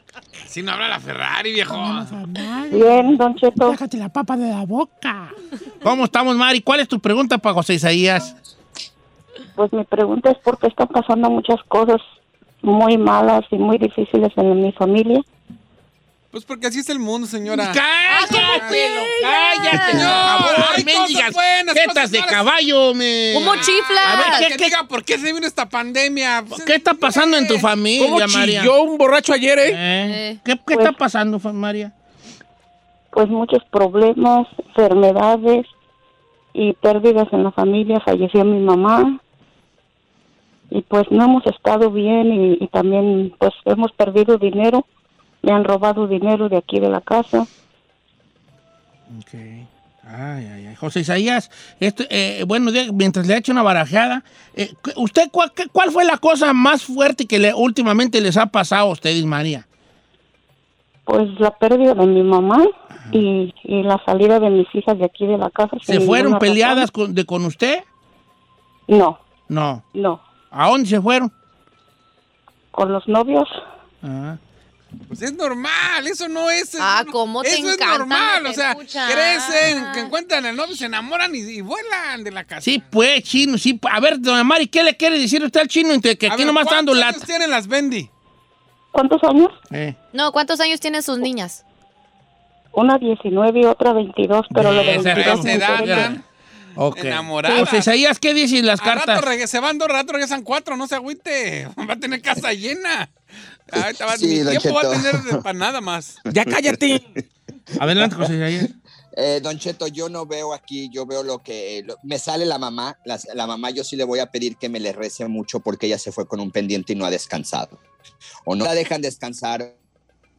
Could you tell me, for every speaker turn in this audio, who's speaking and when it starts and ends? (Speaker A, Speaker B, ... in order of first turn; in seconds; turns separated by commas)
Speaker A: 0.5-2.1, Speaker B: 1.7-3.0, Speaker C: 2.7-3.8, Speaker B: 3.6-8.3, Speaker C: 9.6-12.0, Speaker C: 12.6-15.2, Speaker A: 16.3-19.0, Speaker B: 17.5-24.8, Speaker D: 18.1-20.7, Speaker A: 19.7-22.5, Speaker D: 23.3-24.4, Speaker A: 23.6-27.7, Speaker B: 26.5-28.7, Speaker E: 27.9-29.8, Speaker B: 29.6-31.9, Speaker D: 30.0-30.4, Speaker C: 33.1-35.7, Speaker C: 36.5-39.2, Speaker C: 40.7-44.8, Speaker C: 45.4-47.5, Speaker B: 49.1-59.6, Speaker C: 61.0-66.9, Speaker B: 65.8-67.8, Speaker C: 68.9-69.2, Speaker B: 69.5-69.8, Speaker C: 69.9-70.2, Speaker B: 70.5-71.3, Speaker C: 72.7-73.5, Speaker B: 74.0-74.4, Speaker A: 75.1-82.9, Speaker D: 76.8-80.1, Speaker B: 82.6-87.3, Speaker A: 86.3-88.1, Speaker C: 88.9-89.5, Speaker B: 89.7-89.9, Speaker D: 90.1-91.6, Speaker C: 92.7-96.2, Speaker B: 94.5-96.2, Speaker A: 94.8-96.2, Speaker B: 96.8-99.3, Speaker A: 96.9-97.9, Speaker A: 98.8-103.1, Speaker A: 103.7-106.2, Speaker F: 104.1-105.4, Speaker E: 106.3-107.0, Speaker F: 106.4-106.8, Speaker B: 107.8-108.7, Speaker F: 108.0-108.3, Speaker F: 109.1-117.8, Speaker F: 118.5-119.7